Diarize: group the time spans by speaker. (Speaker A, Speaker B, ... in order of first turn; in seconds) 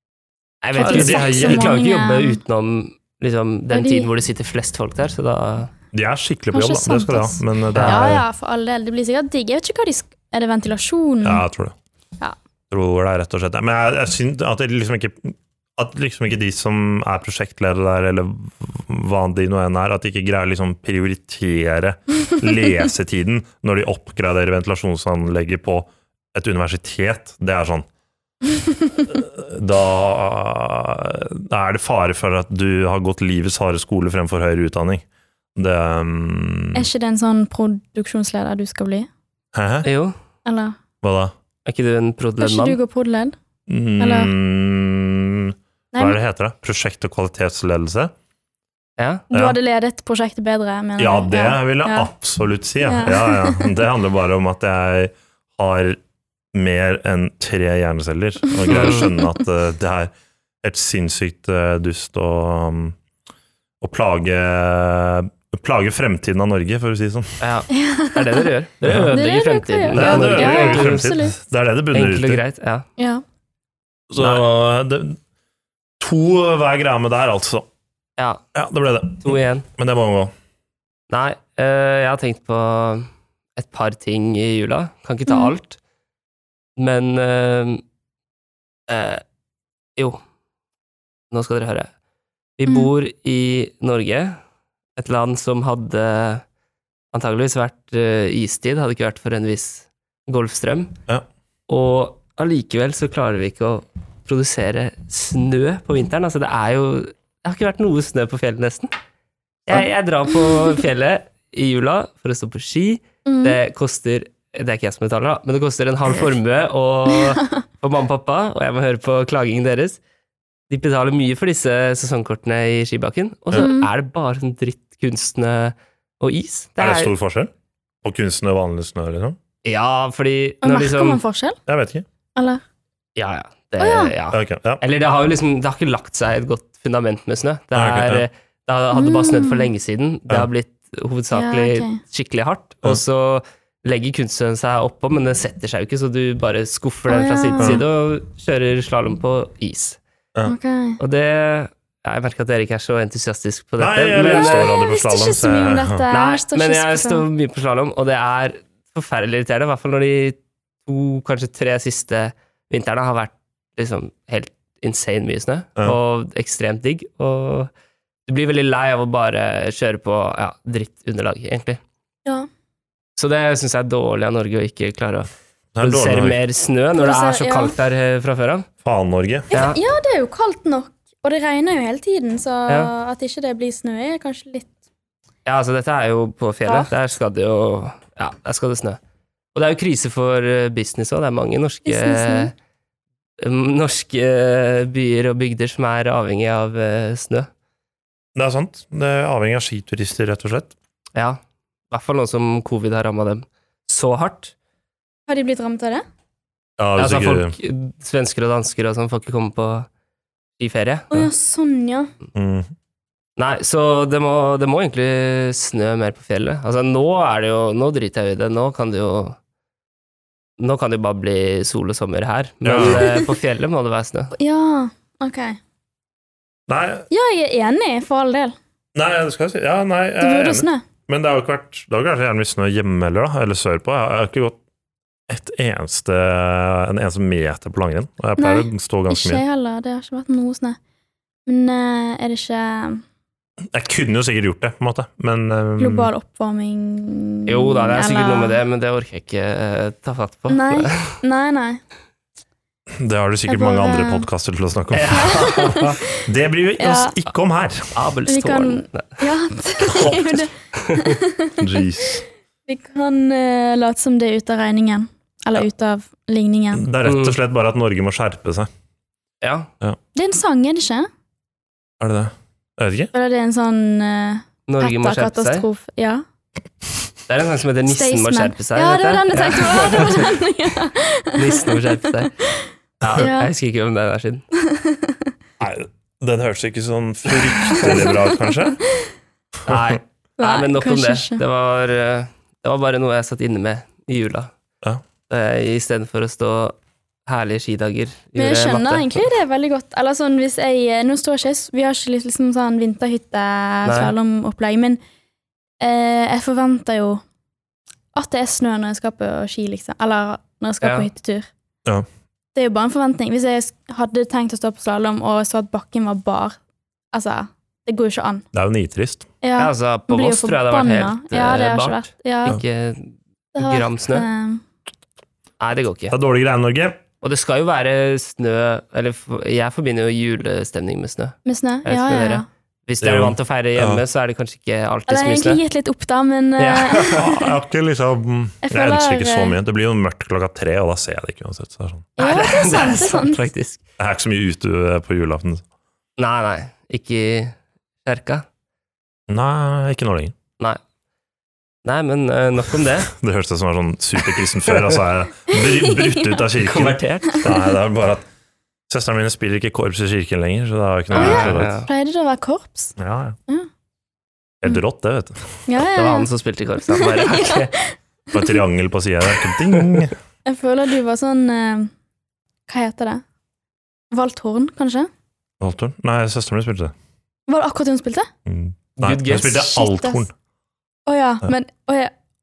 Speaker A: 0.6-5.7, 7.7-8.1, 39.8-40.1, 41.7-42.8, 49.0-49.2, 58.7-59.1, 67.4-71.1, 71.9-72.9, 79.2-79.7, 81.1-85.8, 86.8-87.8, 88.9-89.2, 90.0-90.2, 91.3-91.9, 92.6-94.4, 95.0-96.4, 97.1-101.0, 101.7-108.9, 109.7-120.0, 120.7-127.1, 129.6-131.2, 133.2-150.0, 151.0-154.7, 156.1-167.7, 168.3-171.8, 173.2-178.7, 179.5-179.8, 185.5-189.0, 189.5-192.5, 193.4-197.5, 201.2-201.4, 201.9-204.5, 207.0-209.9, 210.6-211.2, 213.4-219.4, 220.6-224.3, 247.5-251.2, 254.9-256.0, 257.9-259.2, 267.1-267.4, 269.4-269.7, 274.7-275.6, 277.3-280.3, 281.4-282.3, 283.0-284.4, 289.7-294.5, 295.3-299.2, 303.9-304.1, 310.8-311.1, 319.6-324.3, 325.6-326.1, 327.2-335.6, 336.6-337.2, 342.2-343.8, 346.2-348.5, 351.9-353.1, 354.6-355.0, 356.6-357.5, 361.1-361.9, 366.0-367.7, 379.0-379.7
Speaker B: 0.7-2.4, 3.7-4.1, 6.5-11.4, 36.7-39.1, 40.5-40.8, 42.4-43.4, 44.0-44.3, 45.9-46.2, 49.3-52.1, 52.8-53.8, 58.6-59.3, 67.7-68.5, 69.1-71.4, 73.0-73.2, 85.3-85.5, 113.3-113.6, 117.1-117.5, 123.5-123.9, 130.6-131.6, 132.4-132.6, 133.8-134.1, 138.9-139.7, 141.3-142.0, 147.1-147.8, 150.5-151.0, 154.2-157.2, 177.0-177.7, 179.5-184.7, 186.7-186.9, 191.9-192.5, 205.3-206.0, 211.1-212.1, 222.8-223.3, 224.3-225.6, 227.1-228.6, 230.2-230.8, 238.4-240.8, 241.5-243.0, 245.8-248.6, 250.5-251.8, 253.5-254.3, 255.1-256.2, 256.8-257.2, 258.3-262.1, 262.7-266.9, 270.1-271.1, 273.1-276.2, 277.9-281.8, 282.4-283.5, 284.6-285.2, 287.6-289.1, 290.4-291.4, 298.4-305.0, 305.8-307.2, 308.1-311.5, 312.6-316.6, 317.1-318.4, 319.4-322.6, 323.6-324.6, 331.4-332.5, 335.1-337.5, 338.6-339.6, 342.2-343.4, 355.5-356.2, 361.1-363.0, 365.7-366.3, 366.9-367.9, 370.5-371.9, 372.7-373.2, 374.1-375.1, 377.5-378.3, 379.6-380.2, 381.1-382.1
Speaker C: 0.8-1.7, 5.9-8.2, 11.2-11.8, 12.7-27.9, 29.1-35.0, 35.6-36.9, 39.5-39.9, 41.0-41.3, 43.7-48.1, 49.3-49.6, 51.0-56.0, 56.5-63.0, 63.8-67.4, 68.8-69.1, 69.9-72.4, 74.1-75.2, 76.0-77.7, 78.5-80.3, 126.8-127.5, 128.0-129.4, 131.7-132.1, 134.3-134.8, 137.7-138.2, 153.8-156.0, 175.8-176.4, 178.8-179.5, 198.4-200.7, 206.8-207.5, 212.3-212.7, 222.6-223.1, 226.7-227.1, 228.9-234.6, 235.3-239.4, 243.7-246.1, 253.0-258.0, 259.9-260.4, 261.6-262.2, 266.7-268.7, 272.0-273.1, 285.6-288.8, 289.7-290.0, 318.5-319.3, 326.1-327.0, 333.0-334.0, 337.1-342.1, 344.0-345.6, 349.3-350.4, 353.1-358.2, 358.9-361.7, 363.0-363.4, 364.6-365.5, 368.3-370.1, 375.6-376.9, 378.5-380.3